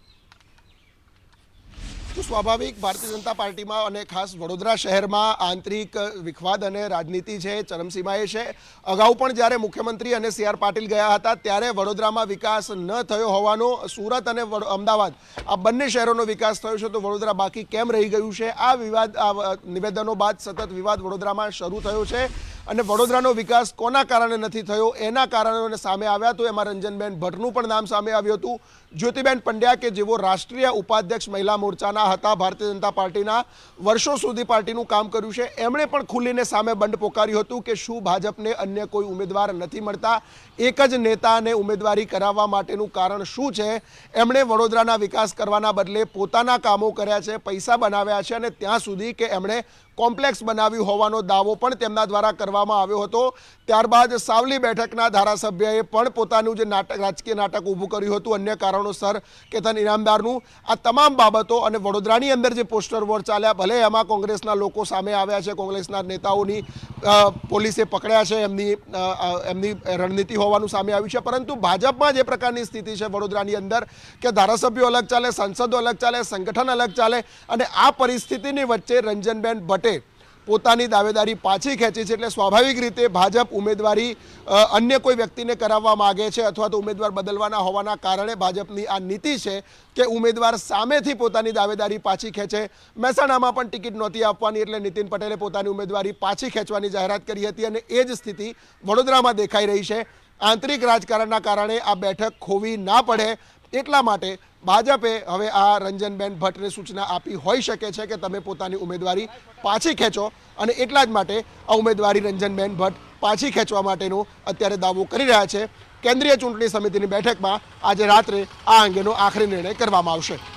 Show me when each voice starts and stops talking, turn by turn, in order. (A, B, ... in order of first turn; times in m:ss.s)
0:02.1-2:00.4 A